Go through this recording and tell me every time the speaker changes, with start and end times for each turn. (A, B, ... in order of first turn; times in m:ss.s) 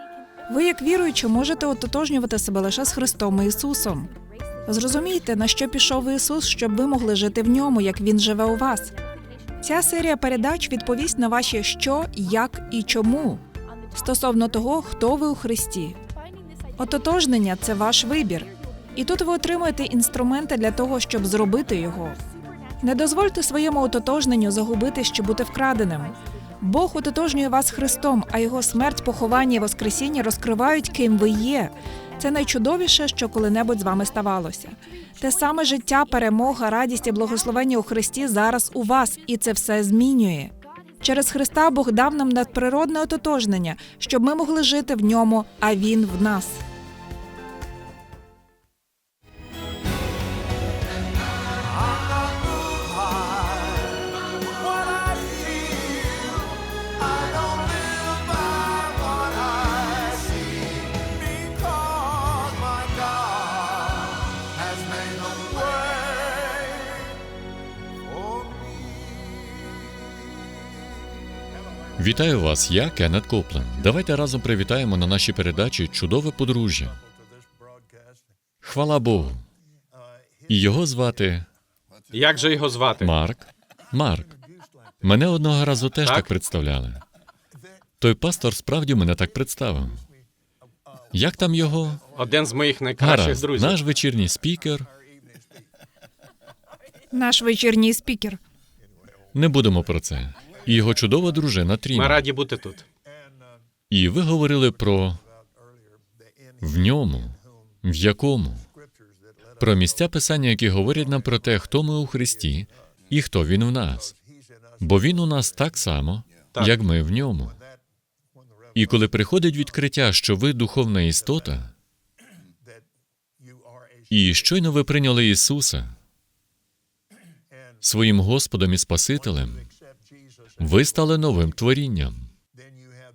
0:00.5-0:04.1 A
0:04.7-0:08.9 A
0:09.6-0:16.0 A
0:16.8-0:22.2 A
0:22.8-0:46.6 A
1:12.0-1:17.0 B
1:18.6-1:19.4 B
1:20.5-1:21.5 B
1:22.1-1:23.1 C
1:23.0-1:24.4 B
1:25.0-1:27.0 B
1:26.0-1:26.3 C
1:28.0-1:30.0 B
1:31.1-1:32.0 B
1:32.1-1:33.8 C
1:33.0-1:34.9 B
1:37.1-1:38.4 A
1:39.3-1:42.2 B
1:41.9-1:42.8 C
1:43.9-1:45.2 B
1:46.6-1:48.7 B
1:49.6-1:54.1 B
1:54.8-1:57.6 B
1:58.7-2:01.7 B
2:04.1-2:05.9 B
2:07.8-2:09.7 B
2:10.6-2:12.3 B